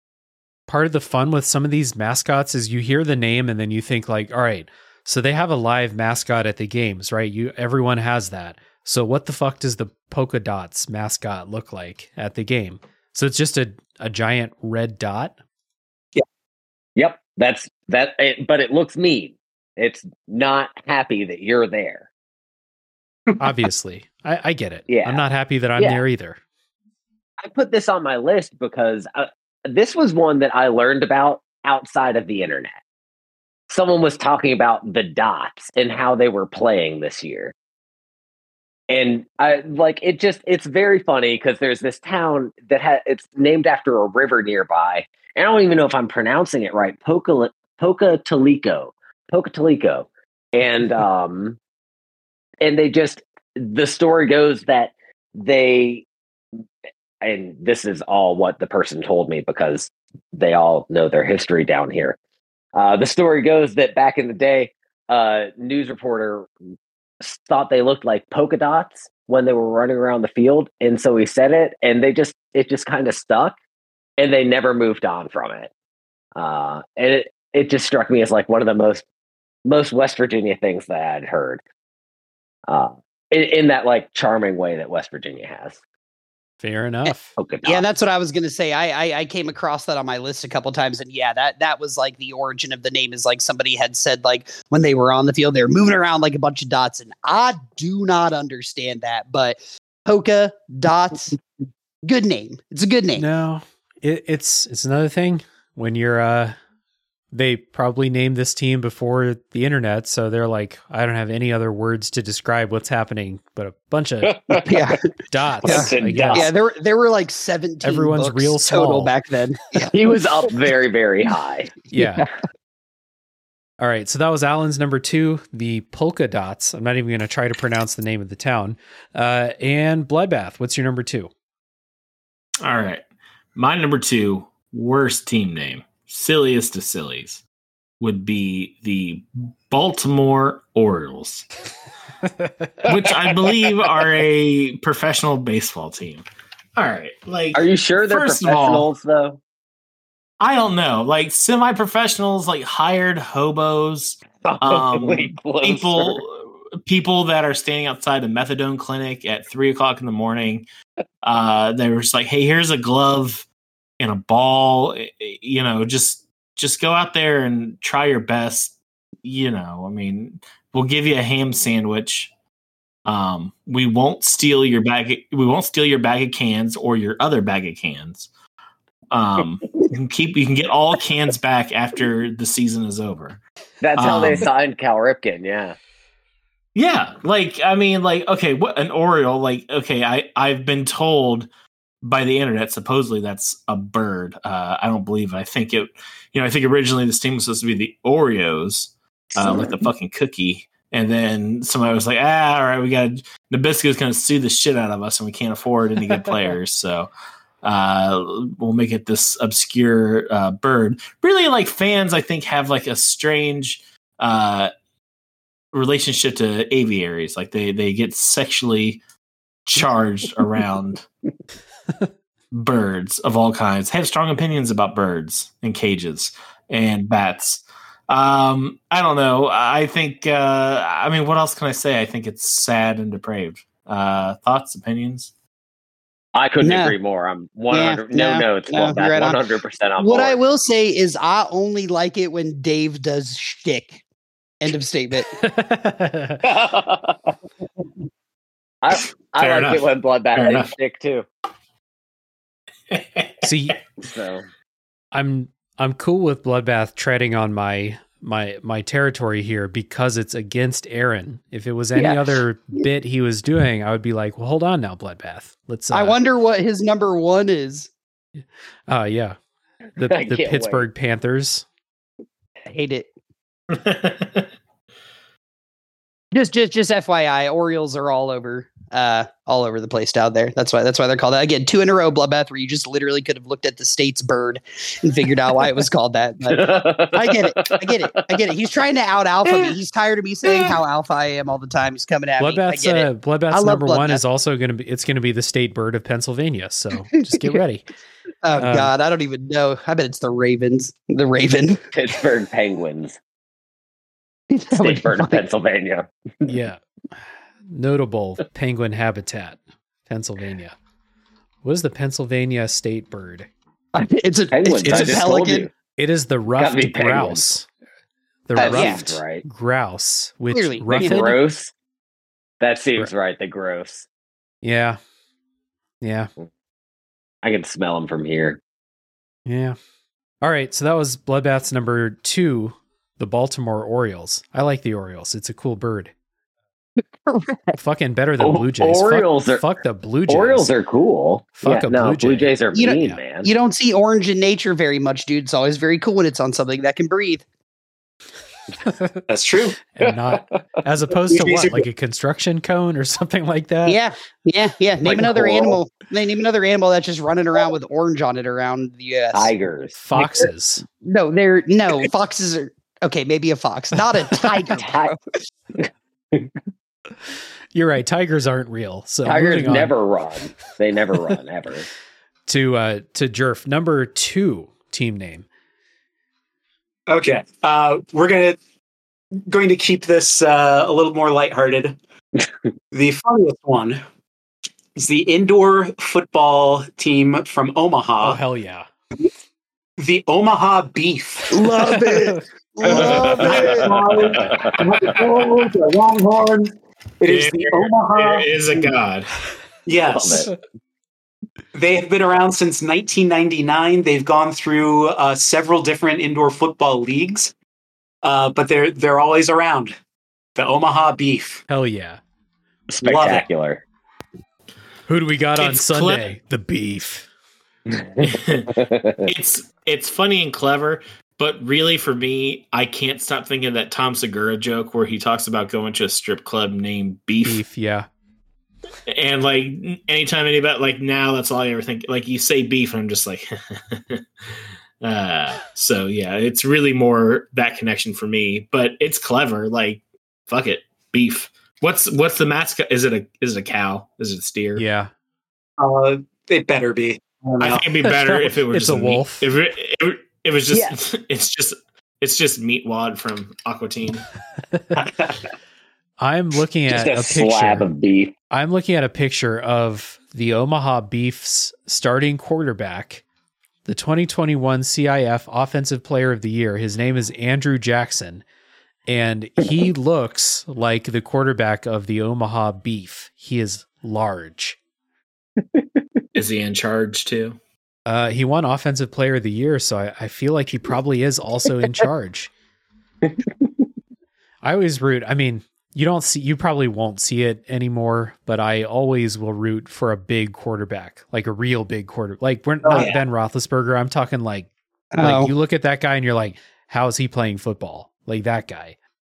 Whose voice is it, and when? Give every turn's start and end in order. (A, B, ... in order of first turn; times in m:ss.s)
0:00.7-0:15.4 A
0:17.0-0:22.1 B
0:23.4-0:26.4 A
0:24.9-0:25.2 B
0:27.4-0:32.7 B
0:33.7-0:37.5 B
0:38.9-0:51.6 B
0:52.6-0:56.1 B
0:57.2-1:02.2 B
1:02.8-1:06.5 B
1:07.2-1:13.6 B
1:14.2-1:15.7 B
1:16.4-1:19.1 B
1:19.7-1:21.6 B
1:22.7-1:25.8 B
1:26.6-1:27.3 A
1:27.4-1:27.8 B
1:27.7-1:41.4 C
1:42.0-1:43.2 C
1:43.2-1:46.6 A
1:47.3-1:54.6 A
1:54.2-1:54.9 B
1:54.6-1:55.1 C
1:55.3-1:56.5 A
1:55.6-1:56.5 B
1:55.6-1:59.9 C
1:57.8-1:59.1 A
1:59.9-2:01.7 B
2:01.9-2:02.3 A
2:02.0-2:02.3 C
2:03.8-2:11.3 A
2:12.6-2:13.0 D
2:13.6-2:17.4 D
2:18.0-2:21.5 D
2:22.3-2:22.8 A
2:22.9-2:28.9 D
2:22.9-2:23.7 B
2:27.5-2:29.4 B
2:30.4-2:40.7 D
2:34.4-2:36.2 B
2:41.2-2:43.5 D
2:44.0-2:52.3 D
2:53.1-2:58.3 D
2:59.1-3:03.4 D
3:03.8-3:05.8 B
3:04.0-3:04.5 D
3:06.8-3:11.5 D
3:12.0-3:27.1 D
3:19.4-3:19.8 B
3:27.6-3:34.7 D
3:35.7-3:39.0 D
3:39.7-3:41.1 D
3:42.5-3:55.3 D
3:56.4-4:00.4 B
3:56.6-3:57.0 C
3:57.7-3:59.4 C
4:00.0-4:04.0 C
4:04.6-4:05.3 C
4:05.3-4:06.4 A
4:06.4-4:07.4 B
4:08.8-4:11.3 B
4:09.4-4:10.7 D
4:12.9-4:13.5 D
4:13.4-4:13.8 A
4:14.0-4:14.5 B
4:15.1-4:26.2 A
4:22.0-4:22.3 C
4:25.9-4:27.9 C
4:28.4-4:29.4 A
4:30.0-4:31.7 A
4:30.0-4:30.9 B
4:32.7-4:33.1 C
4:33.7-4:34.5 D
4:36.3-4:54.2 C
4:46.5-4:48.4 B
4:52.4-4:57.9 A
4:58.4-5:01.8 C
4:58.6-4:58.9 A
5:01.9-5:03.2 B
5:04.5-5:05.4 C
5:04.8-5:06.5 B
5:06.5-5:06.8 A
5:07.7-5:10.8 A
5:11.6-5:13.5 A
5:14.0-5:15.7 C
5:14.5-5:15.7 B
5:14.8-5:15.3 A
5:16.0-5:17.7 A
5:16.6-5:17.4 B
5:18.5-5:21.4 A
5:18.6-5:19.0 C
5:18.6-5:19.4 B
5:20.5-5:21.2 C
5:21.0-5:21.7 B
5:22.6-5:24.1 B
5:24.6-5:25.0 A
5:26.0-5:26.3 A
5:27.4-5:28.6 B
5:29.5-5:29.8 A
5:30.4-5:36.1 A
5:37.3-5:37.8 C
5:37.8-5:40.7 A
5:38.4-5:39.6 B
5:40.3-5:43.5 B
5:41.6-5:43.2 A
5:42.7-5:47.4 C
5:48.9-5:49.2 A
5:49.3-5:49.8 E
5:49.9-5:54.0 A
5:50.0-5:50.4 B
5:51.3-5:51.9 E
5:53.9-5:59.5 C
5:55.0-5:55.8 B
5:59.3-6:00.5 B
6:00.0-6:00.8 A
6:01.0-6:05.2 C
6:04.4-6:05.1 B
6:07.7-6:09.9 A
6:09.2-6:11.9 B
6:12.5-6:15.5 A
6:17.1-6:18.6 E
6:19.5-6:22.0 E
6:22.9-6:24.0 E
6:25.0-6:28.4 E
6:28.2-6:28.9 A
6:30.0-6:31.7 E
6:31.5-6:34.0 C
6:31.8-6:32.4 A
6:32.8-6:38.5 E
6:32.9-6:33.8 B
6:33.4-6:34.4 D
6:34.4-6:34.7 B
6:37.3-6:39.4 D
6:39.9-6:40.5 E
6:40.1-6:40.5 B
6:41.7-6:47.5 E
6:48.2-6:50.0 E
6:50.6-6:51.6 E
6:51.7-6:52.2 A
6:52.9-6:53.8 B
6:53.0-6:53.4 E
6:55.1-6:57.3 A
6:55.6-6:56.3 D
6:57.9-6:59.3 B
6:58.2-6:58.7 D
6:59.2-7:07.6 D
7:07.4-7:08.1 A
7:09.1-7:14.2 D
7:15.0-7:24.8 D
7:24.8-7:25.1 A
7:25.8-7:27.8 E
7:27.6-7:34.2 D
7:28.0-7:29.5 A
7:35.0-7:35.3 E
7:36.2-7:37.9 A
7:36.9-7:38.3 B
7:38.5-7:43.2 A
7:43.8-7:48.4 A
7:49.1-7:54.8 A
7:56.4-7:57.6 D
7:58.1-8:02.5 A
8:03.2-8:03.5 B
8:04.6-8:19.0 A
8:12.8-8:13.2 E
8:15.2-8:15.5 C